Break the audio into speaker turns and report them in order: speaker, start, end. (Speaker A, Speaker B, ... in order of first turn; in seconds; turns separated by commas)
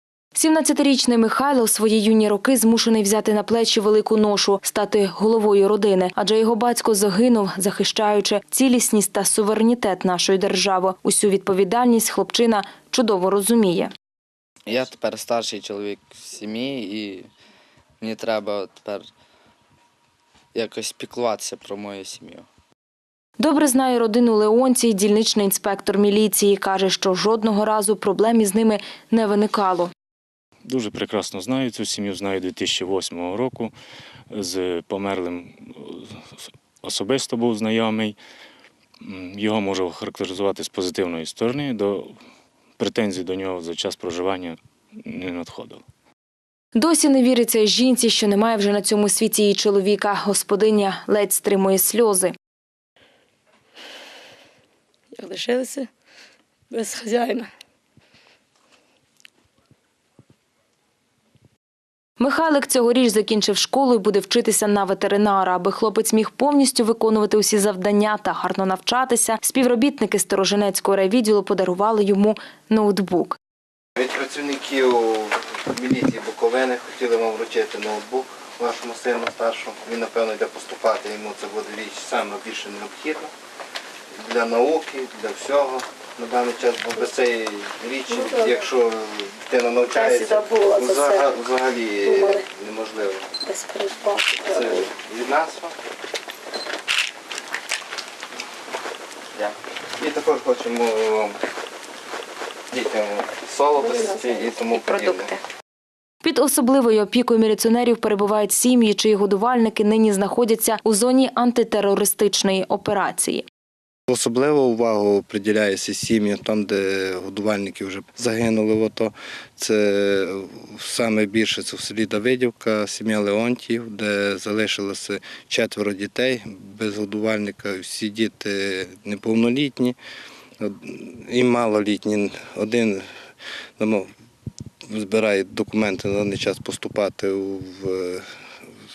Speaker A: 0.3-13.9, Speaker B: 14.7-17.3, Speaker B: 18.0-19.1, Speaker B: 20.5-22.5, Speaker A: 23.4-29.9, Speaker C: 30.6-33.7, Speaker C: 34.3-36.3, Speaker C: 36.8-38.2, Speaker C: 39.0-42.2, Speaker C: 42.8-45.8, Speaker A: 46.8-52.3, Speaker D: 55.1-55.9, Speaker D: 56.7-57.5, Speaker A: 62.2-73.4, Speaker E: 74.0-83.3, Speaker E: 84.2-93.3, Speaker D: 88.1-88.6, Speaker D: 89.9-91.2, Speaker D: 92.0-92.5, Speaker D: 93.4-94.9, Speaker E: 94.5-95.8, Speaker E: 100.0-101.4, Speaker E: 102.7-105.3, Speaker D: 103.9-105.4, Speaker A: 106.2-113.5, Speaker E: 114.1-130.0, Speaker E: 130.6-133.1, Speaker E: 133.8-134.1, Speaker E: 134.9-138.2